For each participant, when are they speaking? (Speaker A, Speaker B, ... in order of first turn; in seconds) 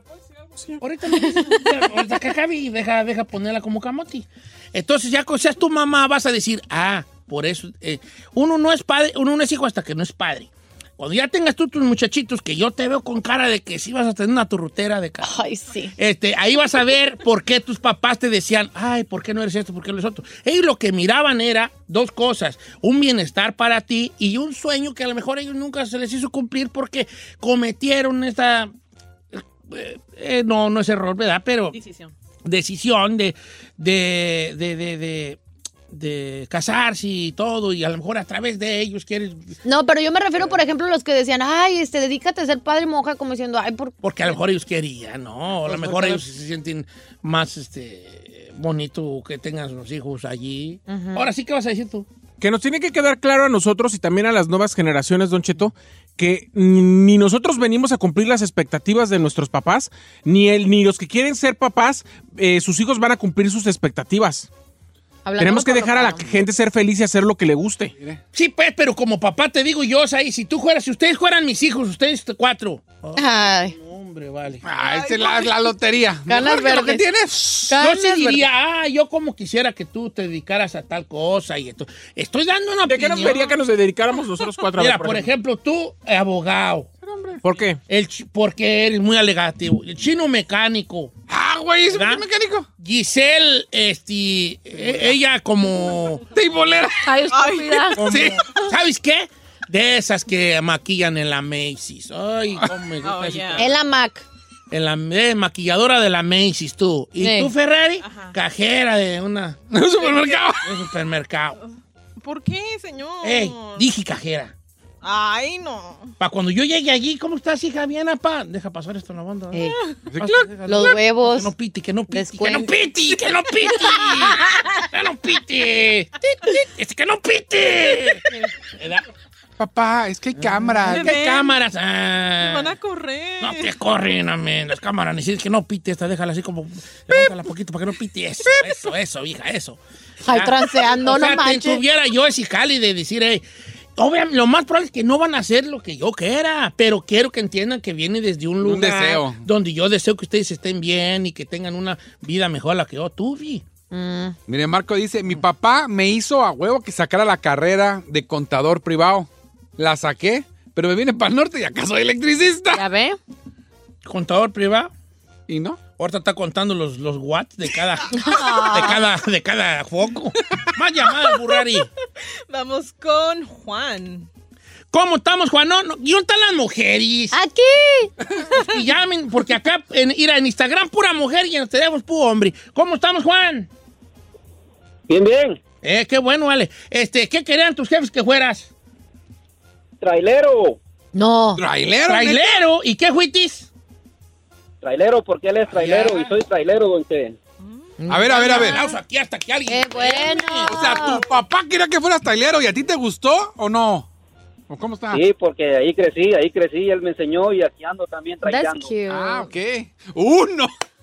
Speaker A: 0.4-0.8, 52.4-64.5, 65.4-67.9, 82.9-85.3, 87.4-87.8
Speaker B: 0.8-15.4, 16.0-28.7, 29.3-31.8, 32.4-35.4, 35.9-39.6, 44.0-52.1, 68.3-74.7, 77.7-83.5, 84.7-86.9, 87.9-91.1, 91.9-92.2, 92.8-96.2, 98.0-103.7, 104.7-111.6, 113.2-114.5, 116.2-129.1, 130.8-132.7, 133.4-143.4, 144.0-153.7, 164.1-164.9, 166.0-171.9, 174.9-177.4, 178.5-183.7, 185.8-188.7, 192.1-193.7, 195.7-196.3, 198.2-201.1
Speaker C: 1.2-1.8, 15.2-15.9, 39.6-44.3, 50.9-51.3, 65.2-66.5, 73.2-73.7, 76.3-77.1, 77.7-78.5, 97.0-98.6, 103.6-104.2, 107.2-107.5, 119.5-119.8, 120.7-121.5, 122.1-122.7, 140.2-141.8, 153.9-154.4, 162.7-163.2, 168.1-169.0, 177.3-178.1, 191.1-191.6, 198.1-198.9, 199.7-201.2, 208.4-209.5
Speaker D: 31.7-32.1, 74.8-75.5, 87.1-87.4, 97.3-98.2, 103.0-103.7, 108.0-108.3, 112.2-113.9, 115.0-116.1, 130.9-131.6, 132.4-133.7, 172.5-174.3
Speaker E: 74.7-77.8, 91.3-92.7, 96.3-97.1, 109.7-110.7, 120.1-120.4, 129.6-131.1, 148.6-149.4, 154.5-162.8, 165.5-165.8, 191.6-192.4, 198.1-198.8, 200.7-204.1, 204.7-205.2, 209.1-210.7
Speaker F: 185.1-185.6, 190.0-190.8, 194.8-197.4, 205.1-209.0